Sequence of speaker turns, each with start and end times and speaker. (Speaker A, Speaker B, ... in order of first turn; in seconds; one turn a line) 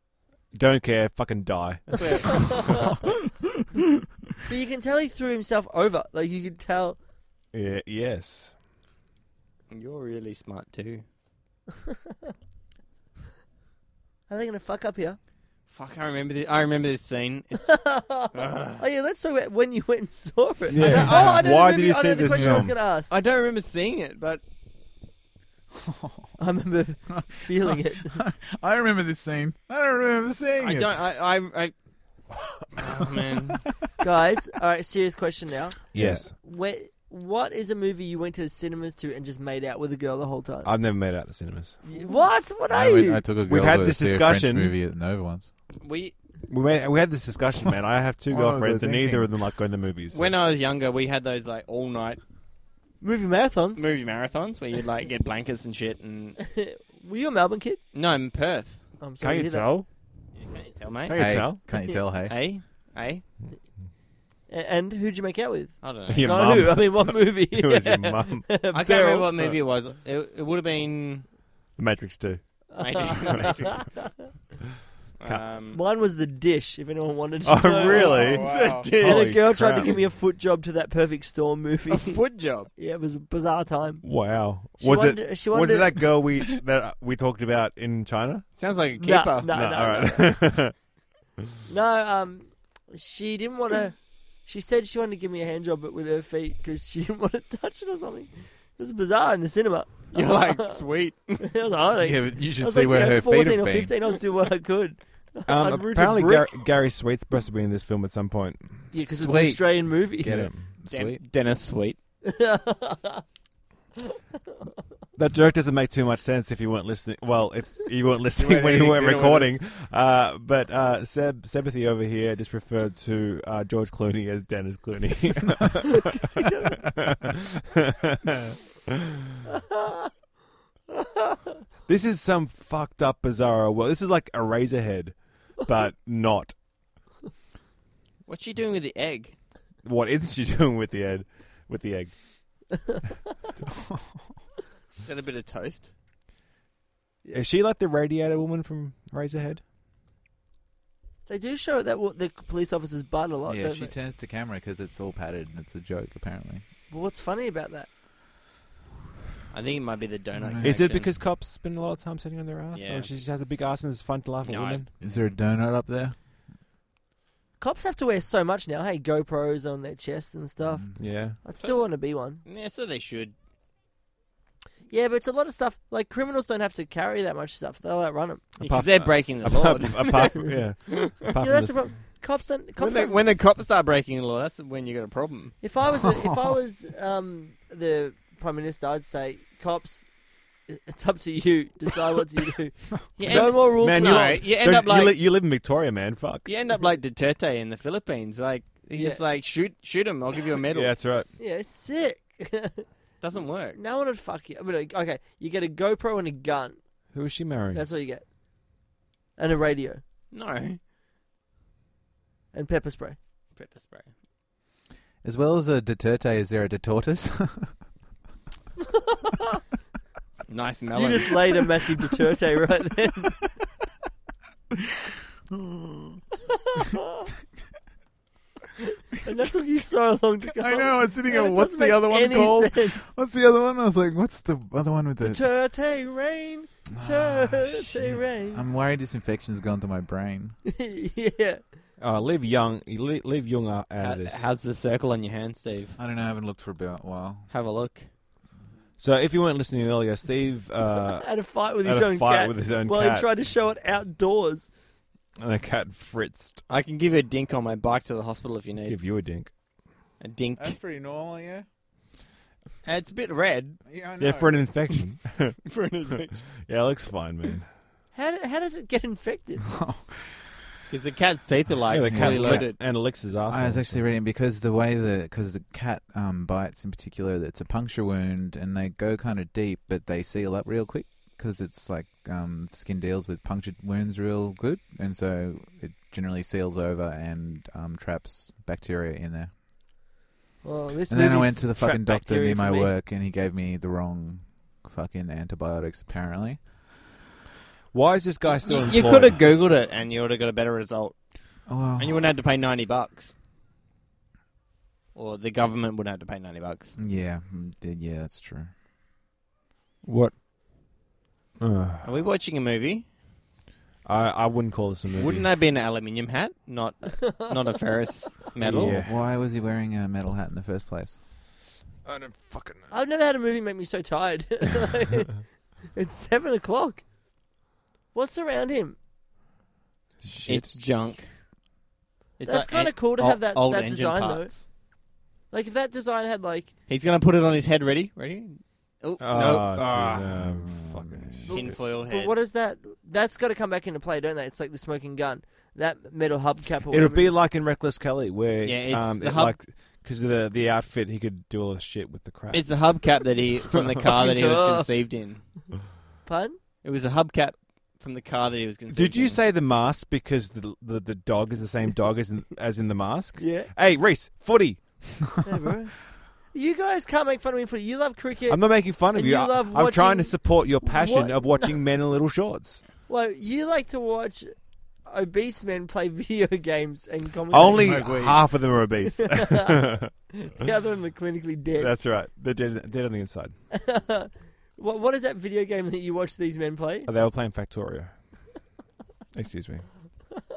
Speaker A: 0.5-3.0
Speaker B: 1.9-2.7
Speaker C: 2.3-2.9
Speaker C: 4.5-7.0
Speaker A: 7.5-8.5
Speaker B: 9.7-11.1
Speaker C: 14.3-15.2
Speaker B: 15.7-17.8
Speaker C: 17.7-23.1
Speaker B: 18.3-18.8
Speaker A: 20.7-22.8
Speaker B: 20.8-21.5
Speaker D: 20.9-21.2
Speaker D: 22.3-22.7
Speaker B: 23.1-24.4
Speaker D: 25.8-26.3
Speaker C: 26.4-28.2
Speaker D: 27.1-31.0
Speaker B: 30.6-31.7
Speaker B: 32.8-33.6
Speaker C: 34.0-40.7
Speaker D: 35.9-36.3
Speaker A: 36.0-36.3
Speaker A: 40.6-41.8
Speaker C: 41.8-43.2
Speaker D: 42.7-45.5
Speaker A: 43.5-44.7
Speaker B: 45.8-46.1
Speaker A: 46.5-50.3
Speaker D: 48.3-49.3
Speaker B: 50.1-52.2
Speaker C: 53.0-53.9
Speaker B: 53.8-56.4
Speaker C: 56.4-57.8
Speaker B: 57.9-58.9
Speaker C: 59.0-59.6
Speaker A: 59.2-59.9
Speaker B: 60.4-61.6
Speaker A: 61.1-61.6
Speaker D: 61.1-62.4
Speaker B: 62.3-63.2
Speaker C: 64.5-69.3
Speaker B: 65.8-66.3
Speaker A: 66.1-68.5
Speaker B: 68.7-71.3
Speaker A: 71.8-72.4
Speaker C: 72.7-74.0
Speaker B: 72.8-73.9
Speaker B: 75.2-75.8
Speaker C: 75.7-84.1
Speaker A: 77.5-79.9
Speaker D: 77.9-78.9
Speaker B: 78.4-79.4
Speaker B: 81.9-82.7
Speaker A: 84.0-88.5
Speaker C: 84.7-85.9
Speaker B: 88.6-89.5
Speaker C: 89.0-90.4
Speaker A: 89.5-90.7
Speaker C: 91.7-100.8
Speaker B: 100.1-101.5
Speaker C: 101.4-106.6
Speaker D: 102.0-103.9
Speaker A: 105.5-109.3
Speaker C: 108.9-110.5
Speaker D: 109.1-111.2
Speaker A: 110.3-110.6
Speaker B: 110.9-112.0
Speaker C: 112.2-113.2
Speaker A: 115.2-128.6
Speaker B: 118.5-119.4
Speaker C: 126.0-126.9
Speaker C: 129.7-130.1
Speaker C: 130.9-131.4
Speaker A: 131.9-136.6
Speaker B: 138.3-139.3
Speaker A: 139.8-142.2
Speaker B: 145.0-145.9
Speaker A: 147.3-149.6
Speaker C: 151.3-153.9
Speaker D: 153.5-156.6
Speaker C: 156.9-157.9
Speaker B: 159.5-161.1
Speaker D: 160.4-160.8
Speaker A: 160.6-164.9
Speaker B: 162.7-163.1
Speaker B: 164.4-165.2
Speaker D: 165.0-166.2
Speaker C: 167.6-172.4
Speaker D: 170.7-171.0
Speaker A: 171.0-171.4
Speaker B: 172.4-173.3
Speaker C: 174.9-178.5
Speaker B: 178.6-181.1
Speaker A: 178.6-181.9
Speaker C: 181.4-183.2
Speaker B: 182.8-185.6
Speaker C: 185.6-190.1
Speaker C: 190.7-194.4
Speaker B: 193.2-195.2
Speaker A: 193.3-196.5
Speaker B: 196.5-200.9
Speaker C: 198.9-199.2
Speaker A: 200.7-201.3
Speaker C: 201.4-202.9
Speaker B: 203.2-203.8
Speaker C: 203.7-206.8
Speaker A: 207.1-207.8
Speaker C: 207.7-208.2
Speaker C: 209.4-210.0
Speaker B: 210.3-210.8
Speaker C: 212.5-213.2
Speaker B: 213.6-214.1
Speaker D: 215.2-217.8
Speaker B: 220.5-221.7
Speaker C: 220.9-223.4
Speaker D: 225.5-226.2
Speaker C: 226.5-227.3
Speaker C: 229.1-233.1
Speaker D: 230.5-235.4
Speaker C: 235.2-238.7
Speaker D: 236.9-240.6
Speaker C: 240.7-241.6
Speaker A: 242.0-244.5
Speaker B: 244.0-246.0
Speaker D: 246.0-247.5
Speaker B: 247.5-248.1
Speaker A: 249.0-253.3
Speaker C: 251.2-254.7
Speaker A: 255.4-256.6
Speaker B: 256.7-259.0
Speaker A: 258.9-259.5
Speaker B: 260.2-260.8
Speaker D: 260.6-261.7
Speaker B: 262.8-263.8
Speaker D: 263.9-264.8
Speaker A: 264.2-265.6
Speaker B: 265.7-266.5
Speaker A: 266.6-267.7
Speaker C: 268.1-269.7
Speaker D: 269.7-270.4
Speaker B: 270.9-272.8
Speaker A: 271.9-274.0
Speaker D: 272.1-289.5
Speaker C: 290.6-292.9
Speaker D: 291.1-296.6
Speaker A: 297.9-299.4
Speaker B: 298.6-301.2
Speaker D: 301.7-302.3
Speaker B: 302.0-303.3
Speaker B: 305.1-307.0
Speaker D: 307.0-308.7
Speaker A: 310.0-310.4
Speaker A: 311.6-312.1
Speaker B: 312.0-313.1
Speaker A: 314.0-315.5
Speaker B: 315.1-319.0
Speaker C: 317.2-317.6
Speaker A: 318.6-319.2
Speaker D: 318.7-321.2
Speaker A: 322.1-322.9
Speaker C: 322.9-327.1
Speaker C: 328.1-329.0
Speaker A: 330.2-330.9
Speaker B: 330.5-331.4
Speaker B: 332.4-334.7
Speaker C: 332.5-334.7
Speaker C: 335.5-336.7
Speaker B: 336.9-339.8
Speaker A: 339.2-341.8
Speaker D: 339.7-341.6
Speaker B: 341.5-342.4
Speaker C: 341.5-347.4
Speaker A: 346.9-352.8
Speaker B: 348.6-349.6
Speaker B: 352.5-355.4
Speaker C: 354.1-354.9
Speaker C: 356.2-356.6
Speaker B: 356.8-359.4
Speaker A: 358.9-365.4
Speaker C: 363.4-363.7
Speaker C: 365.4-371.8
Speaker A: 368.5-372.8
Speaker C: 373.1-378.1
Speaker A: 377.5-380.1
Speaker D: 377.6-378.6
Speaker C: 379.1-381.9
Speaker A: 381.8-383.6
Speaker C: 383.7-387.1
Speaker A: 387.1-388.2
Speaker A: 389.3-389.9